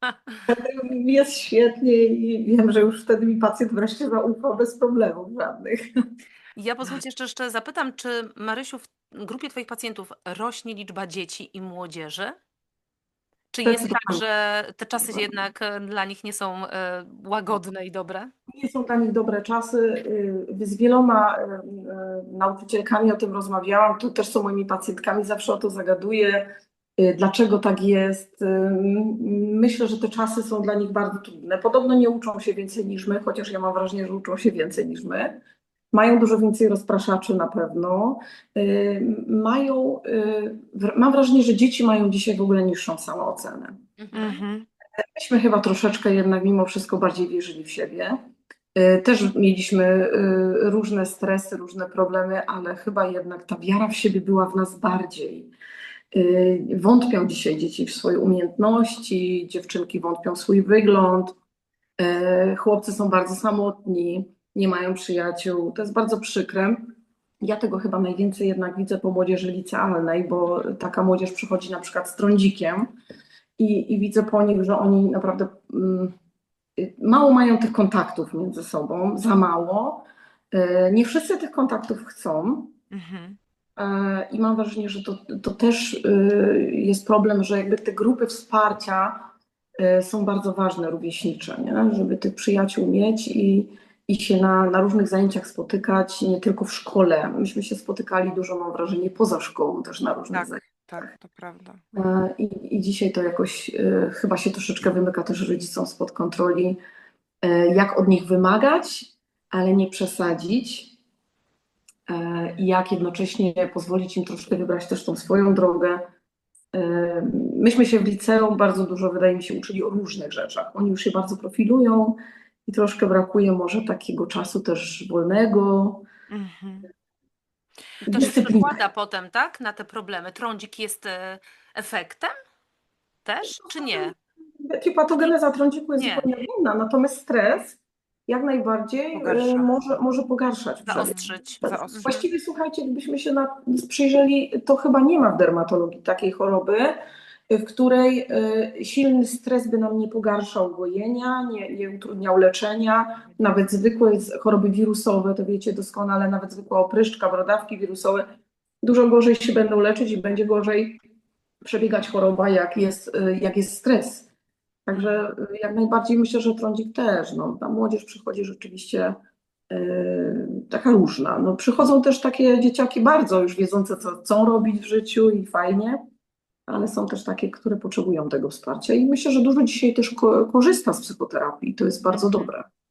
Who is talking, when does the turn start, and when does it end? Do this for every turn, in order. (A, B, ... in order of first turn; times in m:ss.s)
0:00.4-0:05.8 A
0:06.6-0:12.4 B
0:13.5-0:18.3 B
0:13.6-0:14.2 A
0:18.5-0:35.4 A
0:35.9-0:43.9 A
0:44.0-0:44.3 B
0:44.1-0:44.7 C
0:45.0-0:48.2 A
0:48.7-0:55.5 A
0:56.1-1:01.3 A
1:02.0-1:12.9 A
1:13.6-1:16.1 A
1:16.8-1:22.7 A
1:22.9-1:23.4 C
1:23.8-1:40.7 A
1:40.3-1:41.8 C
1:41.9-1:46.8 A
1:47.4-1:50.9 A
1:52.1-1:56.0 A
1:56.7-2:06.0 A
2:06.3-2:06.9 C
2:08.0-2:12.3 B
2:08.1-2:08.8 A
2:13.2-2:14.1 B
2:14.6-2:27.0 A
2:16.0-2:16.3 B
2:19.1-2:19.7 C
2:20.9-2:22.1 B
2:20.9-2:22.2 C
2:27.5-2:38.2 A
2:38.8-2:41.0 A
2:41.6-2:44.3 A
2:44.9-2:49.2 A
2:49.7-2:56.0 A
2:56.7-3:02.6 A
3:02.1-3:02.5 C